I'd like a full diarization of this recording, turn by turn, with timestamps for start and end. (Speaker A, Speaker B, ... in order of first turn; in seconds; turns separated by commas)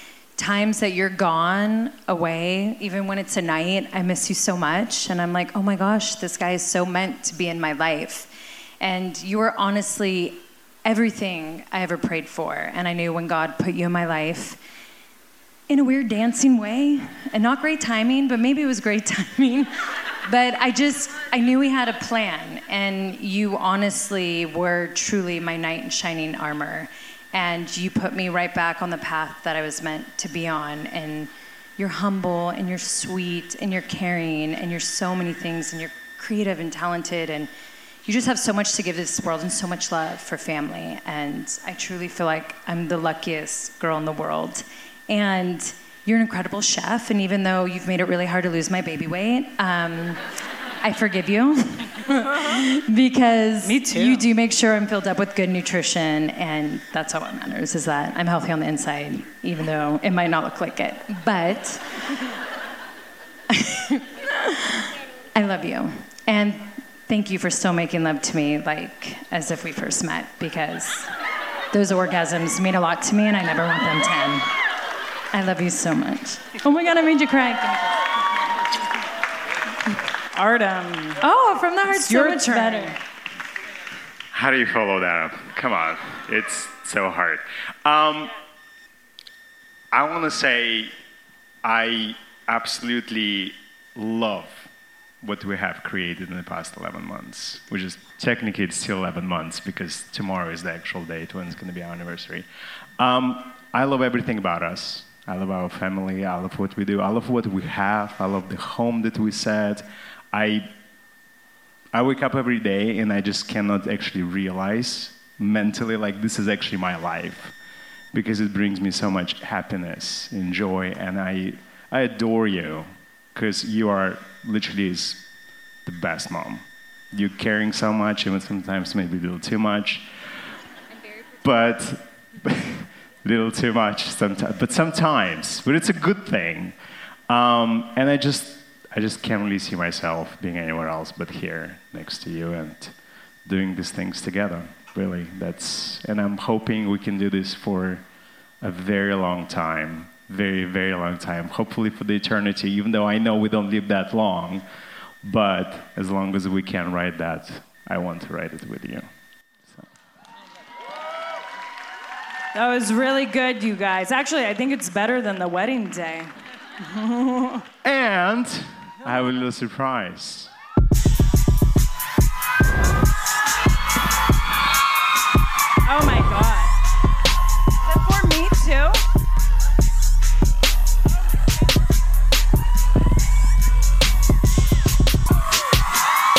Speaker A: 0.4-8.3, Speaker A: 8.8-14.6, Speaker A: 15.7-19.7, Speaker A: 20.2-37.5, Speaker A: 38.0-50.2, Speaker A: 50.8-61.8, Speaker B: 53.6-54.2, Speaker A: 63.5-64.8, Speaker A: 65.3-71.1, Speaker A: 71.7-74.5, Speaker A: 75.3-77.9, Speaker B: 80.3-81.2, Speaker A: 81.2-83.0, Speaker B: 81.9-83.0, Speaker C: 84.3-88.3, Speaker C: 89.9-90.9, Speaker C: 91.6-94.7, Speaker C: 95.2-102.5, Speaker C: 103.0-110.7, Speaker C: 111.9-117.5, Speaker C: 118.1-125.2, Speaker C: 125.8-130.1, Speaker C: 131.4-136.7, Speaker C: 137.3-142.9, Speaker C: 143.4-148.0, Speaker C: 148.6-154.6, Speaker C: 155.2-159.1, Speaker B: 162.5-167.7, Speaker C: 167.8-170.5, Speaker B: 175.8-176.7, Speaker B: 177.8-179.0